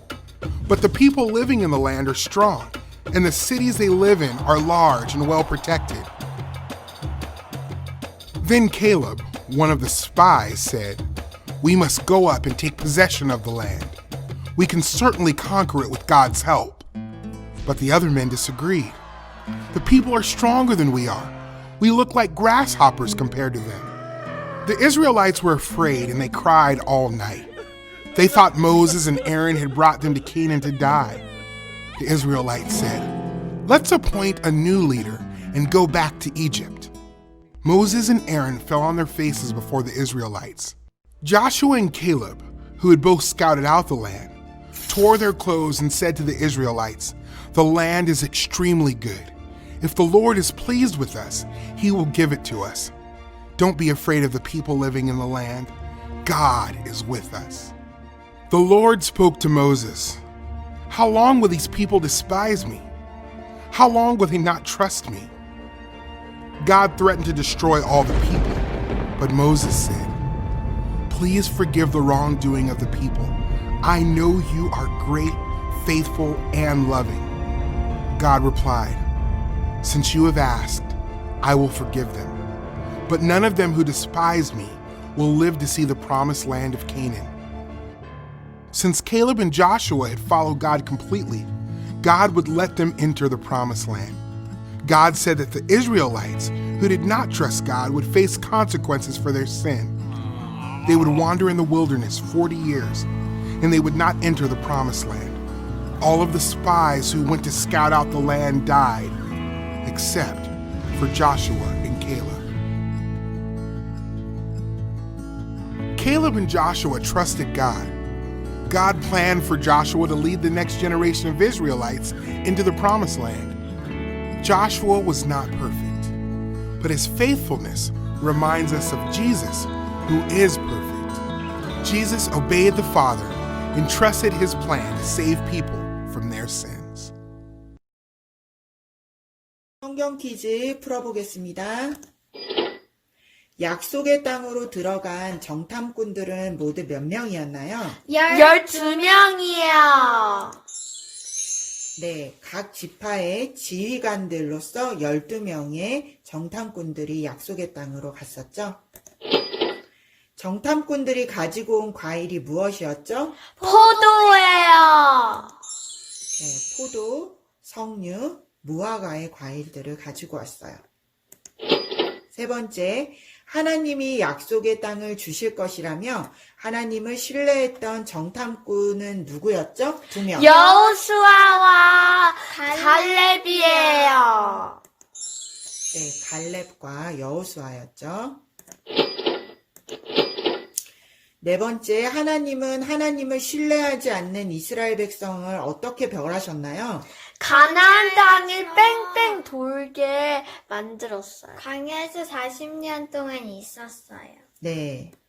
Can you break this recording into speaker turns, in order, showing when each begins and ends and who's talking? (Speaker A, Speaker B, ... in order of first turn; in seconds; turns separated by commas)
Speaker A: 0.7-6.1, Speaker A: 8.4-11.1, Speaker A: 11.6-14.0, Speaker A: 14.6-16.9, Speaker A: 17.6-19.0, Speaker A: 19.7-23.9, Speaker A: 24.7-27.5, Speaker A: 28.1-31.2, Speaker A: 32.0-33.1, Speaker A: 33.7-36.9, Speaker A: 37.6-44.4, Speaker A: 44.9-52.9, Speaker A: 53.6-57.7, Speaker A: 58.5-60.2, Speaker A: 60.9-62.9, Speaker A: 63.7-65.3, Speaker A: 66.6-68.7, Speaker A: 69.2-70.2, Speaker A: 71.1-77.3, Speaker A: 78.1-79.0, Speaker A: 79.8-82.4, Speaker A: 83.1-87.3, Speaker A: 88.7-91.5, Speaker A: 92.0-94.2, Speaker A: 94.8-100.0, Speaker A: 100.8-103.1, Speaker A: 103.6-105.4, Speaker A: 106.0-109.2, Speaker A: 109.8-112.5, Speaker A: 115.9-118.0, Speaker A: 118.7-123.6, Speaker A: 124.4-126.1, Speaker A: 126.8-131.2, Speaker A: 131.8-137.1, Speaker B: 139.8-142.0, Speaker B: 143.6-148.0, Speaker C: 148.0-150.4, Speaker D: 148.3-150.6, Speaker B: 152.0-158.8, Speaker B: 160.4-163.5, Speaker D: 163.6-165.5, Speaker C: 164.0-164.8, Speaker B: 166.4-170.8, Speaker B: 172.3-180.5, Speaker D: 180.4-184.8, Speaker C: 180.5-181.0, Speaker C: 182.5-184.7, Speaker B: 185.9-188.4, Speaker B: 191.4-197.1, Speaker D: 197.4-201.6, Speaker C: 197.5-199.4, Speaker C: 201.6-204.4, Speaker B: 204.6-205.2